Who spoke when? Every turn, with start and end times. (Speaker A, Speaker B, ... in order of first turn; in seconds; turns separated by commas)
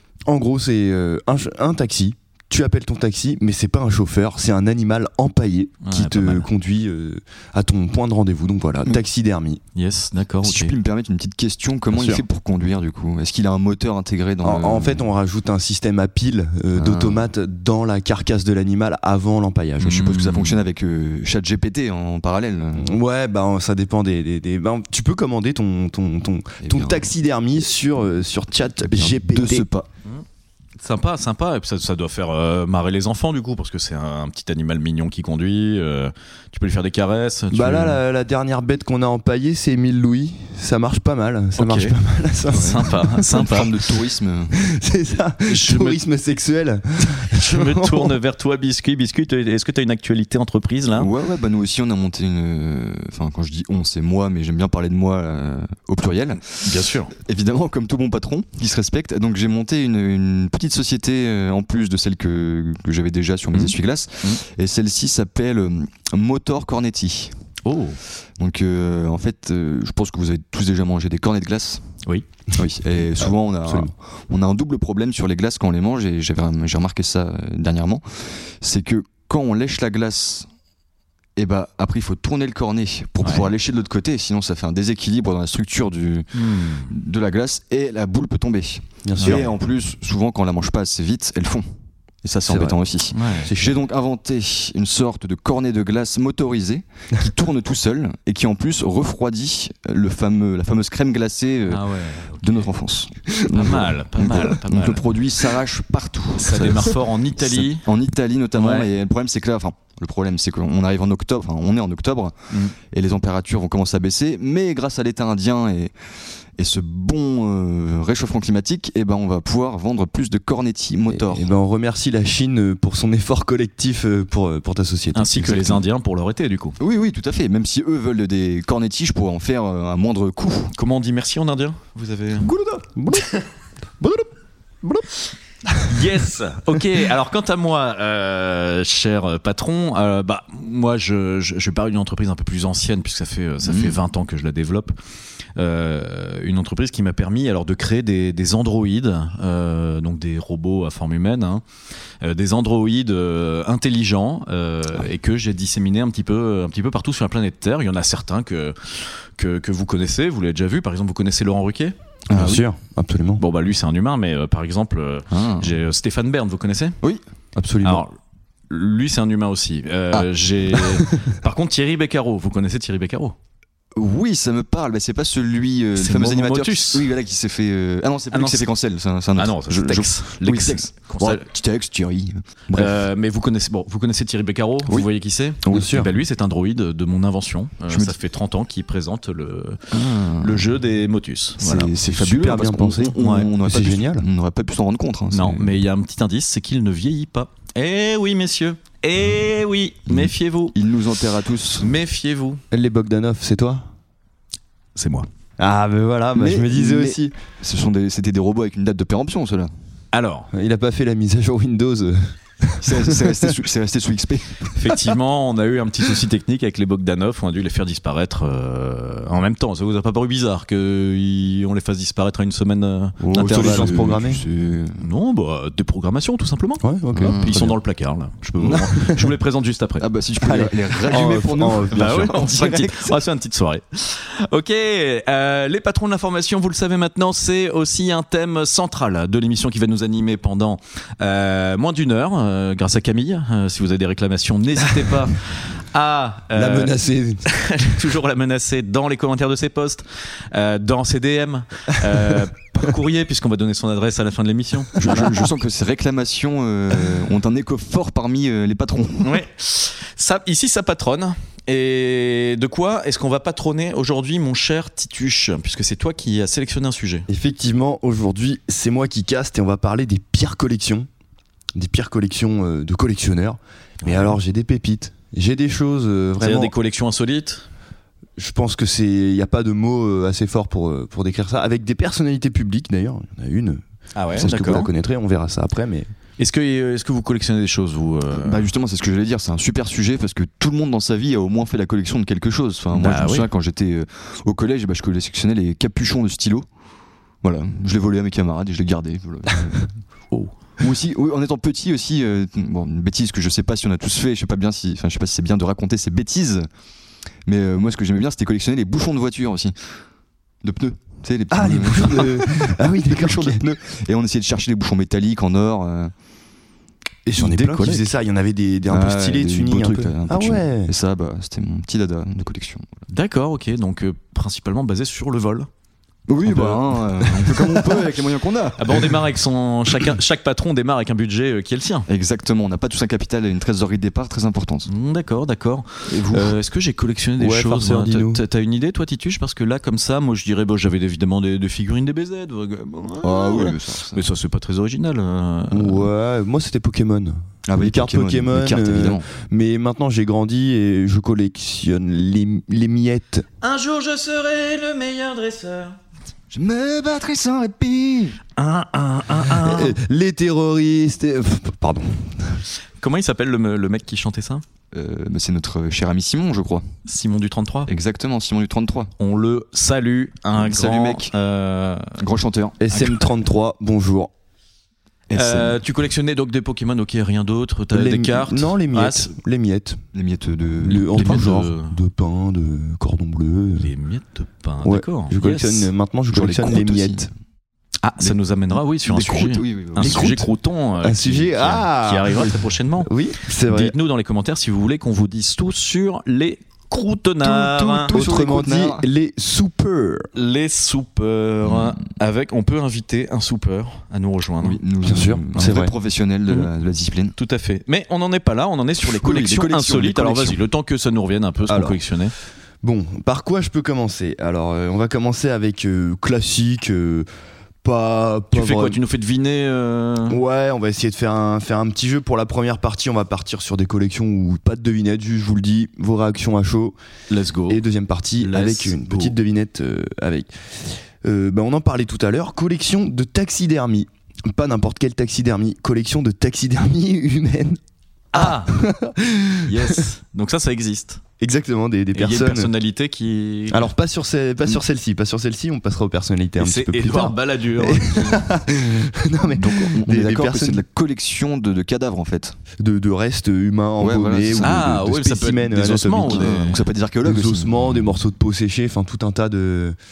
Speaker A: 0.3-9.6, Speaker B: 5.8-6.5, Speaker B: 9.8-10.7, Speaker C: 10.4-15.1, Speaker A: 11.9-12.2, Speaker A: 14.4-20.0, Speaker C: 16.8-17.3, Speaker B: 19.8-20.6, Speaker C: 19.9-23.0, Speaker A: 22.8-29.7, Speaker C: 26.6-27.1, Speaker C: 28.9-29.9, Speaker B: 30.8-38.0, Speaker A: 37.5-43.0, Speaker B: 41.6-42.0, Speaker B: 42.5-43.7, Speaker C: 42.6-44.6, Speaker A: 44.6-48.2, Speaker B: 45.5-46.0, Speaker B: 47.3-51.1, Speaker C: 51.0-67.4, Speaker B: 56.6-57.1, Speaker B: 63.5-64.4, Speaker B: 67.6-68.0, Speaker C: 68.4-72.0, Speaker C: 72.5-80.5, Speaker A: 73.7-73.9, Speaker C: 81.4-91.7, Speaker B: 83.2-83.5, Speaker B: 86.3-86.9, Speaker A: 89.0-89.5, Speaker B: 89.2-89.5, Speaker C: 92.2-116.0, Speaker A: 92.5-92.8, Speaker B: 93.1-93.5, Speaker A: 93.4-93.8, Speaker B: 101.7-102.7, Speaker B: 103.5-105.1, Speaker B: 106.4-107.8, Speaker B: 108.5-108.9, Speaker C: 116.6-121.5, Speaker A: 121.1-125.7, Speaker B: 125.2-126.8, Speaker C: 126.8-130.7, Speaker B: 130.8-132.5, Speaker C: 132.4-132.8, Speaker A: 133.0-133.3, Speaker B: 133.2-133.4, Speaker A: 134.0-134.3, Speaker B: 135.9-144.9, Speaker C: 143.6-144.0, Speaker B: 145.6-151.6, Speaker B: 152.2-161.9, Speaker C: 162.3-162.7, Speaker A: 162.3-163.4, Speaker B: 163.4-167.0, Speaker C: 165.3-165.7, Speaker A: 167.6-168.0, Speaker B: 167.8-168.1, Speaker B: 168.7-173.3, Speaker C: 170.1-170.8, Speaker C: 173.9-183.0, Speaker B: 176.0-177.1, Speaker B: 178.3-178.7, Speaker B: 179.4-181.4, Speaker B: 182.7-191.9, Speaker A: 185.7-186.1, Speaker C: 187.9-188.2, Speaker C: 189.9-190.7, Speaker C: 191.6-195.8, Speaker A: 192.1-194.3, Speaker B: 193.2-193.5, Speaker B: 195.3-200.8, Speaker C: 200.1-201.9, Speaker B: 201.8-202.6, Speaker A: 202.7-203.9, Speaker B: 205.0-205.3, Speaker A: 205.6-207.3, Speaker C: 206.3-209.7, Speaker B: 210.1-210.5, Speaker A: 210.5-213.5, Speaker C: 212.8-214.8, Speaker B: 214.8-224.0, Speaker A: 223.2-224.4, Speaker C: 223.3-225.0, Speaker B: 225.0-230.1, Speaker A: 226.8-227.4, Speaker C: 227.2-227.8, Speaker C: 230.0-233.1, Speaker A: 230.4-232.7, Speaker B: 231.9-255.4, Speaker A: 246.5-247.5, Speaker A: 252.1-252.4, Speaker A: 255.0-255.3, Speaker C: 255.0-259.4, Speaker B: 259.2-267.3, Speaker A: 267.3-271.1, Speaker A: 271.8-276.7, Speaker B: 274.0-274.4, Speaker B: 276.4-277.6, Speaker A: 278.4-283.8, Speaker B: 284.1-284.9, Speaker A: 284.4-286.1, Speaker C: 284.4-284.9, Speaker B: 286.4-288.7, Speaker C: 288.3-296.7, Speaker B: 292.9-293.5, Speaker C: 297.4-299.9, Speaker C: 300.8-306.7, Speaker C: 307.5-309.7, Speaker C: 310.6-316.1, Speaker A: 311.5-313.6, Speaker A: 317.3-320.9, Speaker C: 317.4-318.1, Speaker C: 318.9-323.1, Speaker B: 323.1-325.7, Speaker C: 326.3-329.0, Speaker B: 326.5-326.8, Speaker A: 327.3-328.0, Speaker B: 328.8-332.1, Speaker C: 332.1-334.9, Speaker B: 334.9-346.1, Speaker C: 336.1-336.6, Speaker A: 337.4-338.4, Speaker C: 343.2-344.3, Speaker A: 345.7-353.5, Speaker C: 347.7-349.3, Speaker B: 353.6-356.0, Speaker C: 356.5-358.4, Speaker B: 358.6-360.0, Speaker A: 359.6-362.6, Speaker B: 363.0-364.6, Speaker C: 364.9-366.9, Speaker B: 367.1-367.9, Speaker C: 367.9-369.1, Speaker B: 369.2-372.2, Speaker C: 370.6-371.3, Speaker C: 372.2-372.8, Speaker A: 372.8-374.3, Speaker C: 375.3-375.8, Speaker B: 375.3-379.3, Speaker A: 377.9-380.0, Speaker C: 380.1-381.6, Speaker A: 380.8-383.9, Speaker B: 380.9-382.0, Speaker B: 383.8-385.9, Speaker A: 384.8-387.3, Speaker C: 386.3-387.3, Speaker B: 388.0-393.1, Speaker C: 389.1-390.5, Speaker A: 390.0-390.4, Speaker A: 391.0-392.4, Speaker A: 393.0-393.9, Speaker B: 393.7-398.1, Speaker C: 397.4-399.1, Speaker A: 398.1-400.3, Speaker B: 400.4-404.8, Speaker C: 401.6-402.0, Speaker C: 404.6-407.4, Speaker A: 405.0-405.9, Speaker B: 407.4-412.3, Speaker C: 409.0-410.6, Speaker A: 411.7-412.0, Speaker A: 412.8-417.3, Speaker A: 417.8-419.0, Speaker B: 418.5-420.4, Speaker A: 420.3-427.0, Speaker B: 427.3-427.8, Speaker A: 427.7-437.8, Speaker B: 428.4-429.4, Speaker B: 438.3-438.8, Speaker A: 438.3-440.0, Speaker B: 439.6-441.2, Speaker A: 441.4-442.7, Speaker B: 442.1-443.9, Speaker A: 443.7-450.8, Speaker B: 446.6-448.5, Speaker C: 449.5-452.6, Speaker A: 452.8-456.6, Speaker C: 454.0-454.9, Speaker B: 454.6-456.8, Speaker C: 456.2-457.9, Speaker A: 457.2-460.0